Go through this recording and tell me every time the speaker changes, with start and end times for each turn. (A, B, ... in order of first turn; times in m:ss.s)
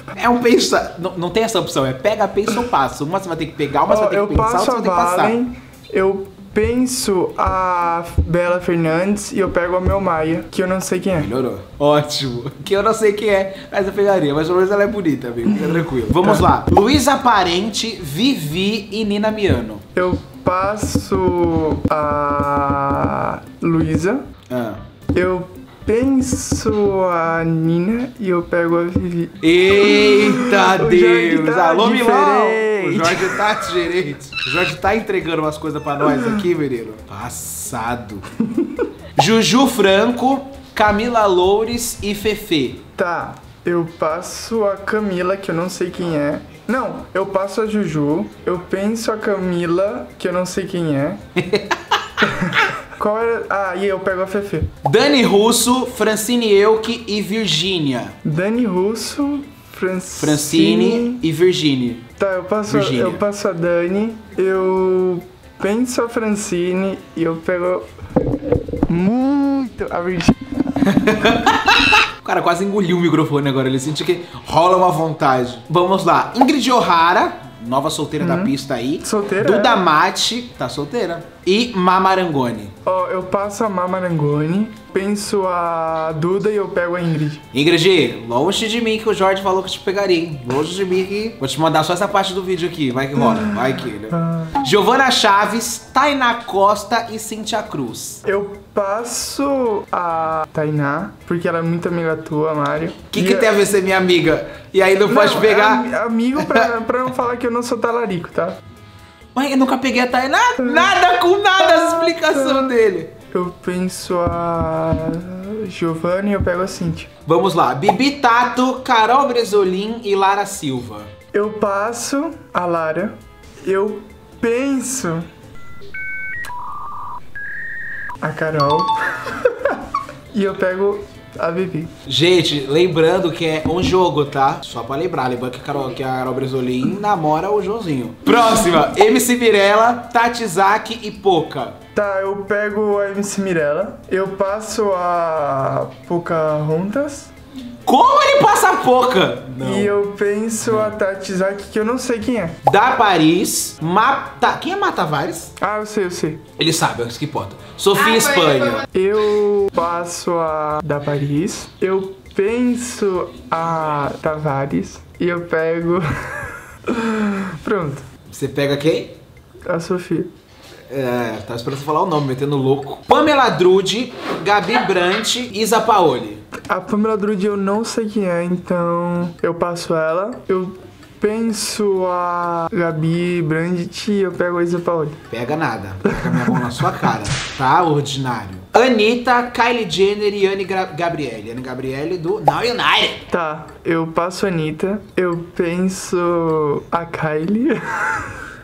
0:00.1-0:05.4 A
0:03.9-0:11.3 B
0:11.2-0:19.8 A
0:15.5-0:16.4 B
0:20.0-0:24.2 B
0:24.5-0:24.8 A
0:25.1-0:33.5 B
0:29.4-0:38.2 A
0:36.0-0:36.4 B
0:38.5-0:38.8 B
0:39.2-0:42.8 A
0:43.0-0:51.2 B
0:51.4-0:52.2 A
0:52.2-0:54.7 B
0:54.8-0:58.2 A
0:58.2-1:01.2 B
1:00.2-1:02.1 A
1:02.2-1:07.9 B
1:02.7-1:03.2 A
1:08.9-1:10.4 B
1:10.8-1:22.7 A
1:18.2-1:19.8 B
1:22.8-1:27.4 B
1:27.5-1:38.2 A
1:33.2-1:34.6 B
1:38.2-1:43.5 B
1:43.1-1:46.7 A
1:45.1-1:48.6 B
1:49.3-1:53.1 A
1:50.6-1:50.9 B
1:51.6-1:52.7 B
1:53.3-1:57.1 B
1:57.2-2:01.1 A
2:01.3-2:05.3 B
2:08.2-2:09.8 B
2:10.3-2:11.9 B
2:12.1-2:21.8 A
2:21.9-2:27.3 B
2:27.8-2:29.9 A
2:29.6-2:32.6 B
2:30.6-2:30.9 A
2:32.6-2:35.5 A
2:35.6-2:36.4 B
2:36.6-2:38.9 A
2:38.9-2:48.1 B
2:48.3-2:49.2 A
2:49.7-2:50.3 B
2:50.9-2:56.4 A
2:56.7-3:05.2 B
3:05.3-3:13.2 A
3:06.1-3:06.6 B
3:13.3-3:18.4 B